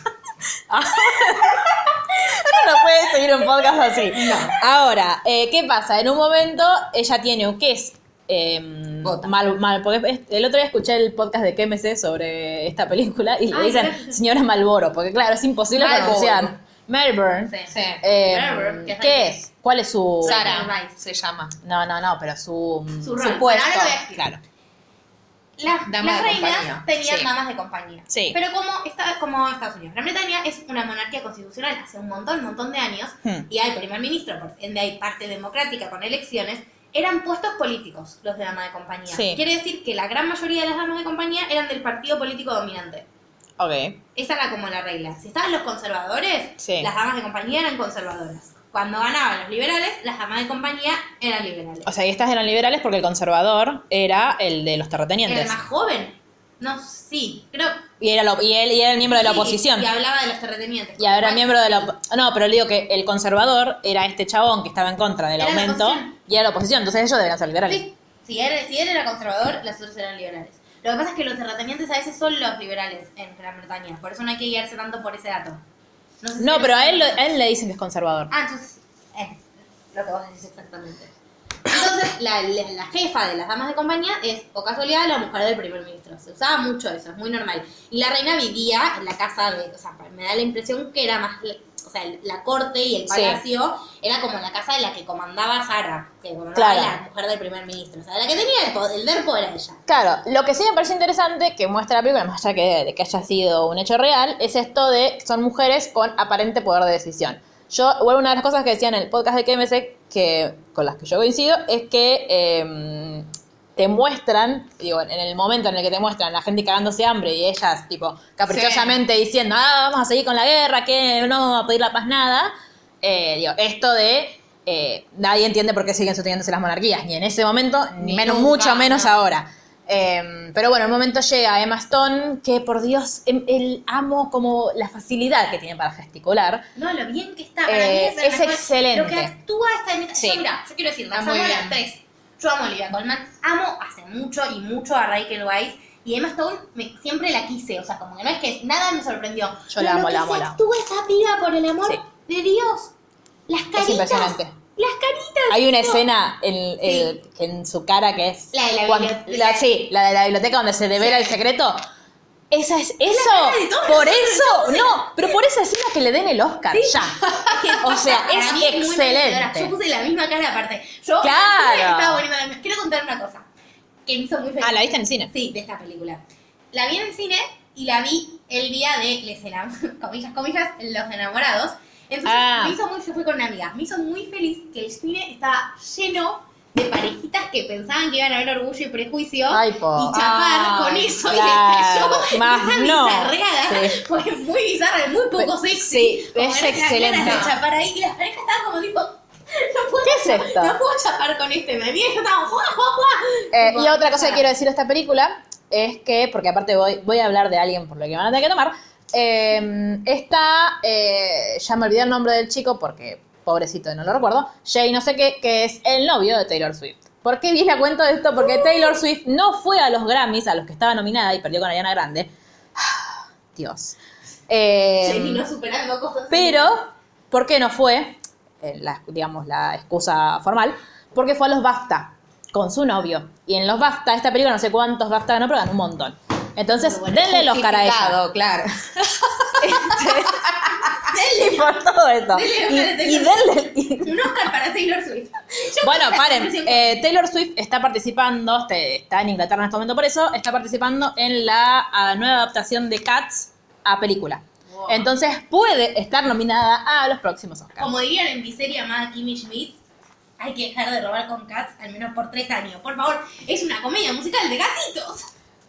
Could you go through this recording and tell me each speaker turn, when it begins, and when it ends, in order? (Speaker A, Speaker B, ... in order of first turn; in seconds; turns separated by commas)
Speaker A: 0.7-20.7, Speaker B: 4.1-4.6, Speaker B: 9.0-9.3, Speaker C: 13.5-14.2, Speaker B: 15.7-16.5, Speaker C: 17.5-19.4, Speaker B: 17.7-18.0, Speaker C: 20.2-20.9, Speaker B: 20.2-21.6, Speaker A: 21.6-24.4, Speaker C: 23.0-24.2, Speaker C: 25.6-43.1, Speaker B: 25.9-27.1, Speaker A: 28.1-28.4, Speaker A: 39.1-39.4, Speaker A: 43.6-44.0, Speaker C: 44.1-51.9, Speaker A: 46.6-46.9, Speaker A: 51.8-55.5, Speaker C: 55.2-57.8, Speaker A: 58.0-59.9, Speaker C: 59.1-61.9, Speaker A: 61.0-67.8, Speaker C: 65.4-66.1, Speaker C: 67.7-75.6, Speaker C: 76.2-77.2, Speaker A: 76.4-78.3, Speaker C: 78.3-81.1, Speaker C: 81.7-99.8, Speaker A: 93.1-93.4, Speaker A: 96.5-96.9, Speaker A: 99.9-136.7, Speaker B: 118.5-119.0, Speaker B: 128.0-129.0, Speaker C: 136.8-152.9, Speaker A: 137.7-139.3, Speaker A: 140.2-140.4, Speaker B: 141.1-141.8, Speaker A: 149.7-150.6, Speaker C: 153.5-156.0, Speaker A: 153.8-154.5, Speaker A: 155.5-161.8, Speaker C: 156.8-157.2, Speaker C: 158.5-159.7, Speaker C: 161.0-161.4, Speaker A: 162.5-167.2, Speaker C: 163.1-165.1, Speaker C: 166.7-173.4, Speaker A: 167.8-169.7, Speaker A: 171.2-172.2, Speaker C: 174.1-204.5, Speaker A: 174.6-175.3, Speaker A: 182.2-182.8, Speaker A: 189.5-193.9, Speaker B: 190.2-190.8, Speaker A: 195.4-197.5, Speaker B: 197.2-197.5, Speaker A: 200.0-200.8, Speaker A: 203.5-224.0, Speaker A: 224.5-225.4, Speaker C: 225.0-226.8, Speaker A: 226.3-238.2, Speaker B: 237.0-240.3, Speaker A: 239.6-244.5, Speaker C: 241.1-247.0, Speaker A: 245.8-257.9, Speaker C: 254.7-255.0, Speaker C: 257.8-259.8, Speaker C: 260.4-265.3